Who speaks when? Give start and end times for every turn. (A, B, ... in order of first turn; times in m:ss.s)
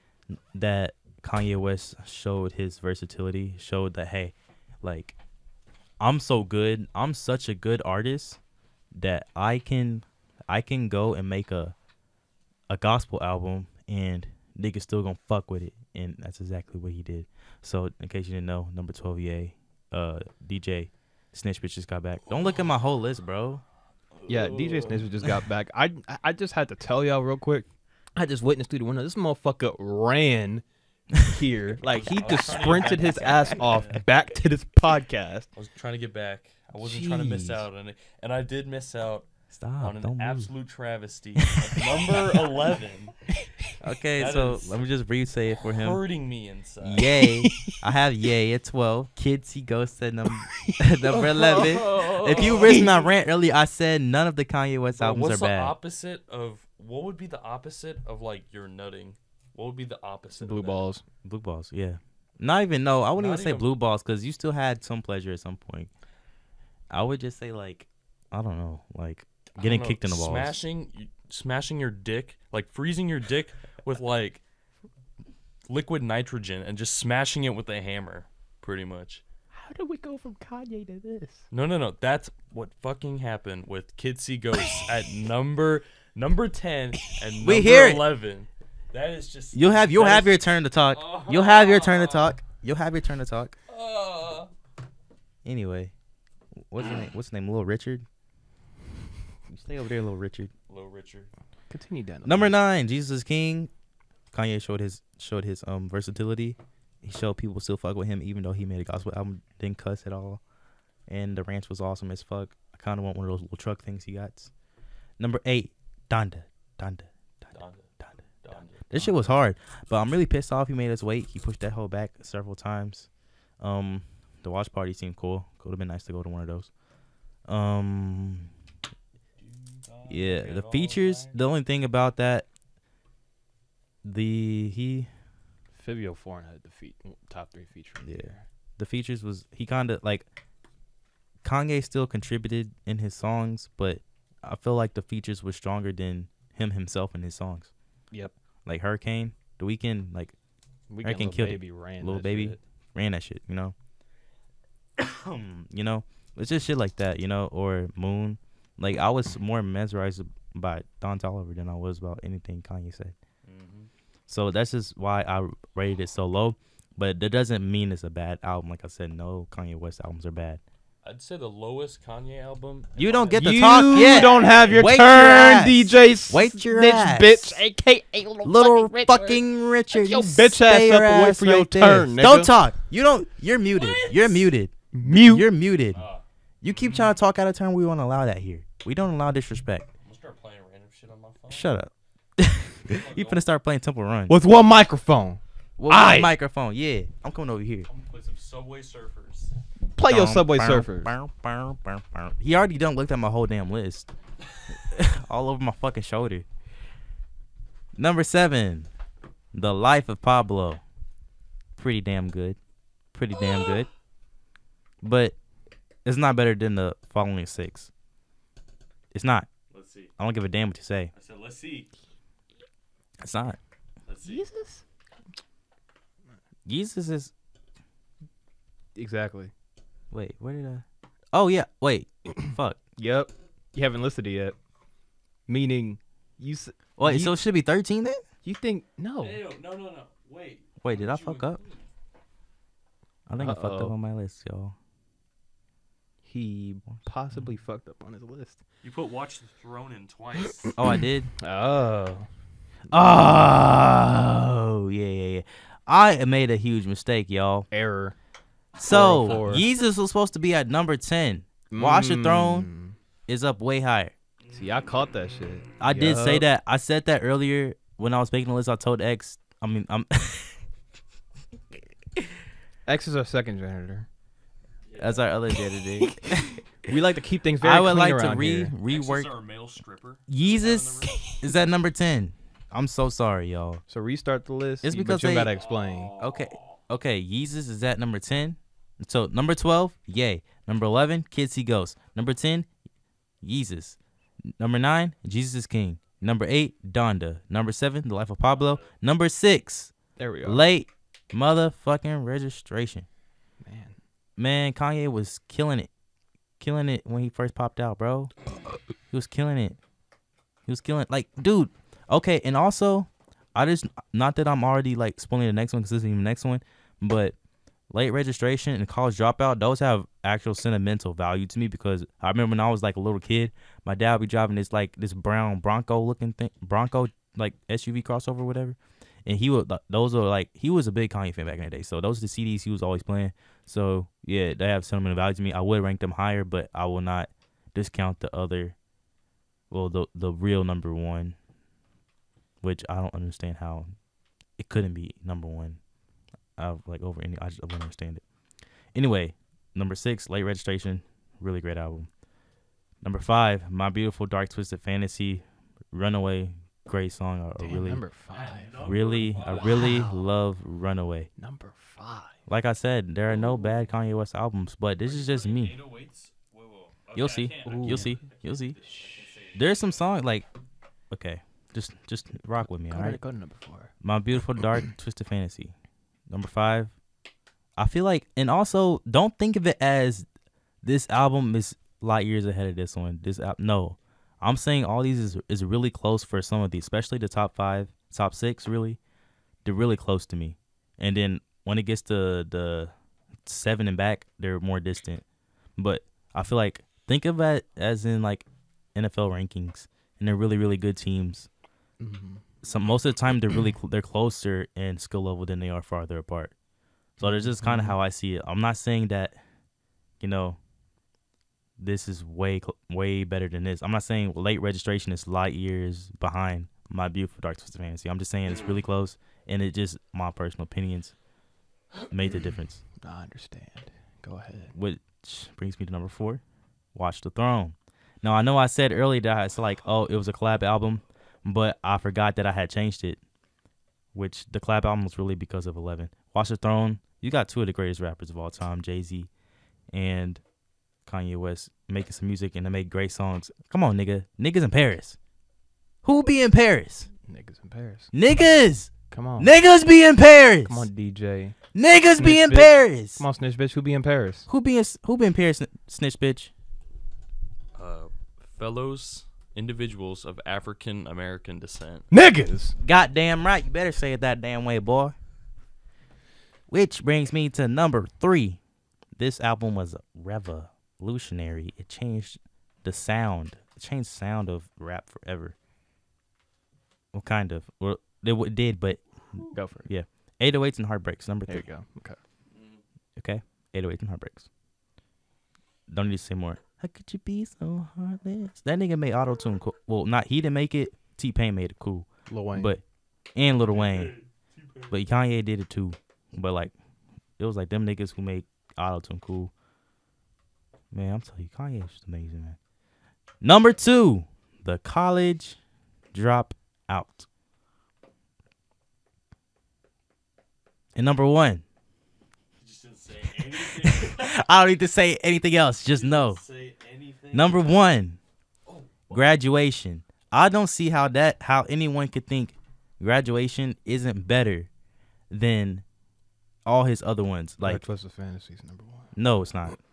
0:00.3-0:05.2 A
0:06.0-0:08.4 A
0:08.9-0:11.8 A
0:12.7-0:23.6 A
0:24.2-0:25.1 B
0:24.3-0:30.6 C
0:31.2-0:35.5 C
0:31.8-0:34.0 B
0:32.6-0:33.6 A
0:35.6-0:43.2 B
0:36.8-0:37.6 A
0:39.5-0:40.5 A
0:43.8-0:46.0 A
0:44.2-0:44.8 B
0:45.6-0:47.1 B
0:46.8-0:55.7 A
0:50.6-0:52.8 C
0:51.1-0:53.0 B
0:55.0-1:00.9 B
1:00.4-1:01.0 C
1:01.2-1:05.9 A
1:03.2-1:03.7 B
1:06.9-1:10.6 A
1:09.6-1:14.4 B
1:15.7-1:19.2 B
1:19.5-1:21.4 C
1:21.5-1:32.4 B
1:27.4-1:28.0 A
1:29.5-1:33.6 A
1:33.7-1:34.5 B
1:35.4-1:35.9 A
1:36.6-1:38.0 A
1:39.5-1:40.5 A
1:40.7-1:41.3 B
1:41.7-1:42.5 C
1:42.2-1:43.7 A
1:44.3-1:50.4 A
1:51.1-1:54.5 A
1:55.2-1:58.2 A
1:57.5-1:59.4 B
1:58.8-2:06.7 A
2:07.4-2:08.5 A
2:09.4-2:11.4 B
2:10.1-2:12.5 A
2:14.0-2:15.1 A
2:15.7-2:18.4 C
2:18.0-2:20.3 A
2:21.4-2:27.7 A
2:28.7-2:30.4 A
2:30.9-2:32.6 C
2:31.0-2:33.8 A
2:35.0-2:43.1 A
2:43.4-2:43.9 B
2:44.3-2:50.6 A
2:51.0-2:54.8 B
2:53.0-2:57.6 A
2:53.1-2:59.4 C
2:58.4-3:06.0 A
2:59.9-3:02.5 C
3:03.7-3:04.4 B
3:04.9-3:05.5 C
3:05.9-3:06.2 B
3:06.6-3:09.9 A
3:10.0-3:11.7 B
3:11.5-3:14.4 A
3:12.9-3:13.4 B
3:14.3-3:16.3 C
3:15.8-3:17.9 A
3:17.9-3:19.6 B
3:20.0-3:21.1 C
3:20.0-3:24.1 A
3:24.7-3:26.5 A
3:28.0-3:28.9 A
3:29.5-3:30.8 A
3:31.8-3:32.6 A
3:33.1-3:33.9 A
3:35.0-3:35.4 A
3:36.0-3:37.9 A
3:39.1-3:39.5 A
3:39.7-3:40.1 B
3:40.2-3:41.1 A
3:41.1-3:41.9 B
3:43.2-3:43.6 A
3:44.1-3:44.5 B
3:44.2-3:44.8 C
3:46.7-3:47.3 A
3:49.0-3:49.5 C
3:50.1-3:52.8 A
3:53.0-3:54.6 C
3:55.5-3:57.4 C
3:57.0-3:58.2 A
3:58.4-3:59.4 C
3:59.2-4:01.8 B
4:00.8-4:01.6 A
4:03.3-4:04.8 A
4:03.4-4:03.9 C
4:06.2-4:08.6 C
4:08.8-4:10.8 B
4:10.8-4:11.3 A
4:11.4-4:12.3 C
4:12.9-4:17.7 A
4:17.7-4:18.2 C
4:18.8-4:22.7 A
4:18.9-4:19.7 C
4:21.7-4:23.0 C
4:23.3-4:24.1 A
4:24.5-4:26.5 C
4:25.8-4:30.6 A
4:32.9-4:34.1 C
4:34.9-4:35.3 B
4:35.0-4:36.6 A
4:36.8-4:38.7 C
4:37.6-4:39.3 A
4:38.8-4:41.2 B
4:40.3-4:43.8 A
4:43.9-4:46.1 C
4:44.8-4:45.5 A
4:45.6-4:46.7 B
4:46.2-4:52.7 A
4:53.4-5:03.1 A
4:58.5-4:58.9 B
5:00.2-5:00.6 C
5:03.6-5:04.0 C
5:04.4-5:05.9 A
5:06.6-5:08.3 A
5:09.1-5:09.8 A
5:10.7-5:17.4 A
5:17.9-5:38.8 A
5:39.7-5:41.4 A
5:42.6-5:44.0 A
5:44.6-5:45.8 A
5:46.6-5:48.2 A
5:48.9-5:52.1 A
5:53.0-5:58.0 A
5:57.6-5:58.9 C
5:58.3-6:00.0 B
5:58.8-6:01.3 A
5:59.6-6:00.2 C
6:01.4-6:02.4 C
6:02.5-6:05.8 A
6:05.0-6:09.6 B
6:07.2-6:08.8 A
6:07.6-6:08.2 C
6:08.8-6:09.2 C
6:09.5-6:10.5 A
6:11.1-6:13.2 A
6:12.9-6:13.9 C
6:14.0-6:15.7 A
6:16.3-6:16.9 A
6:17.8-6:20.3 A
6:20.8-6:29.0 A
6:29.6-6:32.9 A
6:33.4-6:35.2 A
6:35.8-6:41.5 A
6:42.0-6:42.5 C
6:42.6-6:46.5 A
6:47.2-6:49.4 A
6:47.2-6:48.0 C
6:50.2-6:50.6 A
6:51.8-7:01.2 A
7:02.1-7:02.8 A
7:03.0-7:04.7 C
7:04.8-7:06.4 A
7:07.0-7:13.2 A
7:14.1-7:19.3 A
7:19.9-7:20.4 A
7:21.1-7:25.2 A
7:26.0-7:27.1 A
7:27.3-7:28.1 C
7:28.1-7:30.9 A
7:29.1-7:29.5 C
7:30.7-7:31.6 C
7:31.8-7:33.2 A
7:32.2-7:34.5 C
7:34.5-7:36.5 A
7:37.8-7:42.1 B
7:42.1-7:42.8 C
7:42.8-7:45.2 A
7:46.7-7:48.6 A
7:49.2-7:55.6 A
7:57.1-8:01.7 A
7:59.5-7:59.9 C
8:01.5-8:02.2 C
8:02.5-8:02.8 B
8:03.2-8:04.5 A
8:05.9-8:12.8 A
8:12.3-8:12.8 C
8:13.4-8:14.2 A
8:13.8-8:14.9 B
8:14.9-8:16.7 A
8:17.4-8:19.5 A
8:20.9-8:22.6 A
8:23.4-8:25.6 A
8:26.1-8:27.3 A
8:31.0-8:31.6 A
8:32.6-8:34.4 B
8:33.6-8:36.4 A
8:35.9-8:37.7 B
8:37.3-8:38.2 A
8:38.7-8:39.3 B
8:39.1-8:44.7 A
8:45.3-8:45.8 A
8:46.6-8:47.8 A
8:47.6-8:49.1 C
8:49.2-8:49.8 A